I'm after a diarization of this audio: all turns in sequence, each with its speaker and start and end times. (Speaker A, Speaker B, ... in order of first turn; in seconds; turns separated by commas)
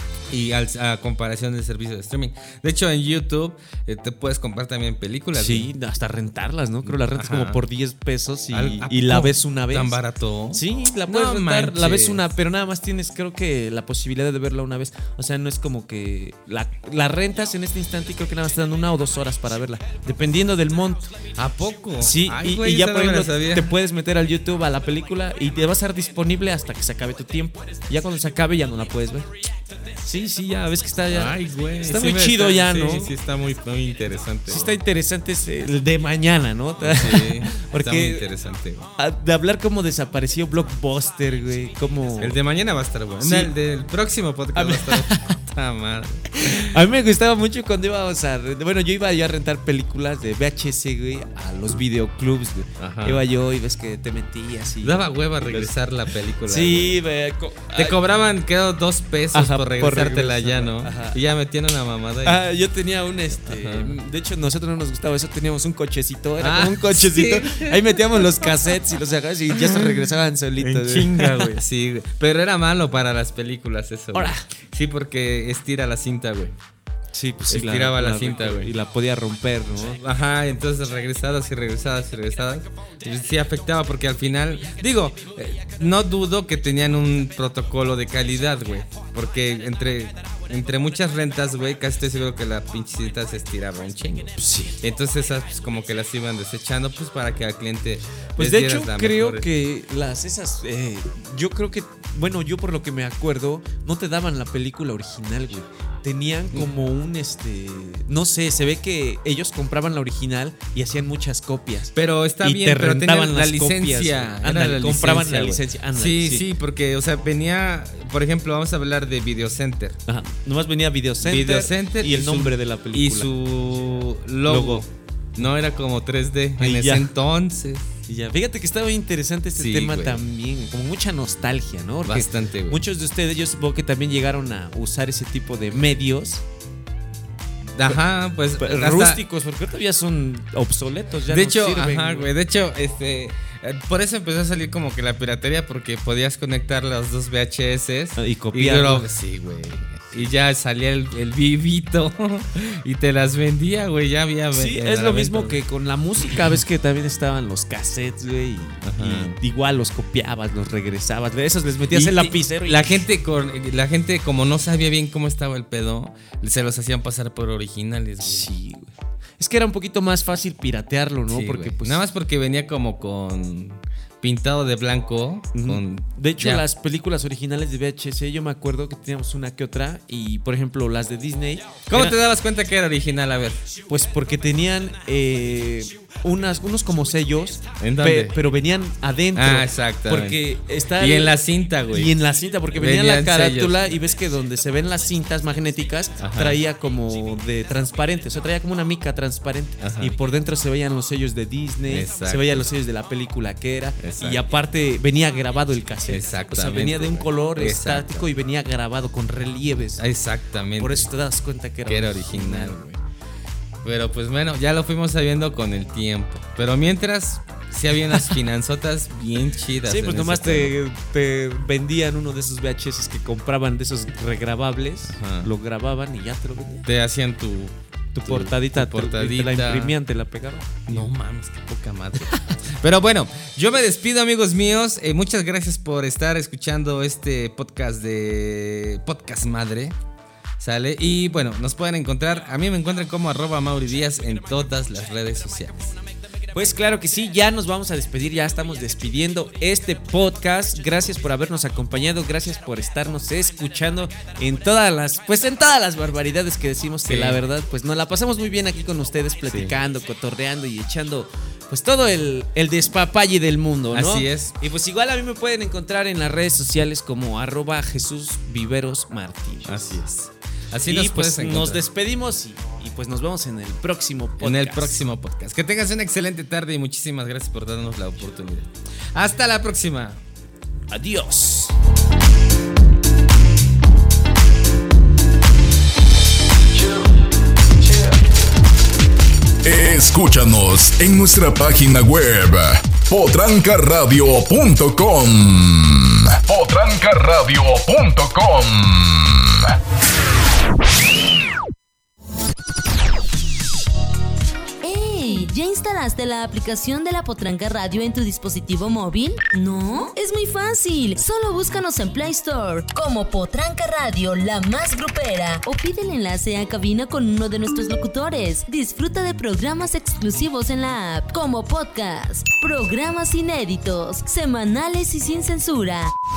Speaker A: 0.3-5.7, Speaker B: 5.3-9.9, Speaker A: 6.8-7.6, Speaker A: 8.5-12.2, Speaker B: 10.5-21.1, Speaker A: 21.3-23.7, Speaker B: 22.0-29.3, Speaker B: 30.0-33.1, Speaker A: 31.1-34.7, Speaker B: 34.5-38.2, Speaker A: 36.8-38.9, Speaker B: 39.0-42.4, Speaker A: 42.2-46.5, Speaker B: 43.2-43.5, Speaker B: 44.5-45.3, Speaker B: 46.5-55.7, Speaker A: 52.8-53.2, Speaker A: 54.8-57.0, Speaker B: 56.5-58.0, Speaker A: 57.7-62.4, Speaker B: 59.3-61.2, Speaker B: 62.2-71.6, Speaker A: 63.4-64.0, Speaker A: 66.4-68.5, Speaker A: 69.5-69.9, Speaker A: 70.6-76.5, Speaker B: 74.1-74.4, Speaker B: 77.1-80.0, Speaker A: 77.5-78.7, Speaker A: 80.0-99.5, Speaker B: 94.3-94.8, Speaker B: 98.4-116.5, Speaker A: 111.9-120.0, Speaker B: 120.1-123.3, Speaker A: 121.2-127.9, Speaker B: 124.5-124.8, Speaker B: 126.6-127.1, Speaker B: 128.1-136.4, Speaker A: 129.5-130.2, Speaker A: 132.1-132.8, Speaker A: 137.8-139.2, Speaker B: 138.6-142.3, Speaker A: 141.3-155.6, Speaker B: 148.2-149.1, Speaker B: 154.5-163.0, Speaker A: 158.8-159.4, Speaker A: 161.9-168.5, Speaker B: 168.2-172.0, Speaker A: 171.3-176.6, Speaker B: 175.5-182.2, Speaker A: 181.9-183.6, Speaker B: 183.9-191.4, Speaker A: 187.8-188.4, Speaker A: 189.3-190.4, Speaker A: 191.0-192.1, Speaker B: 191.9-210.1, Speaker A: 192.7-193.9, Speaker A: 196.2-196.6, Speaker A: 199.8-200.2, Speaker A: 201.9-202.7, Speaker A: 204.0-204.5, Speaker A: 206.1-208.3, Speaker A: 210.0-211.1, Speaker B: 210.8-213.0, Speaker A: 211.8-212.8, Speaker A: 213.8-220.8, Speaker B: 219.8-226.9, Speaker A: 225.1-225.5, Speaker A: 226.8-229.9, Speaker B: 228.1-231.1, Speaker A: 230.9-239.9, Speaker A: 240.6-246.0, Speaker B: 246.5-270.0, Speaker A: 257.1-257.4, Speaker A: 259.5-259.7, Speaker A: 263.9-264.5, Speaker A: 269.6-271.8, Speaker B: 270.9-275.0, Speaker A: 274.4-280.2, Speaker B: 280.9-281.7, Speaker C: 289.6-299.8, Speaker D: 304.8-326.1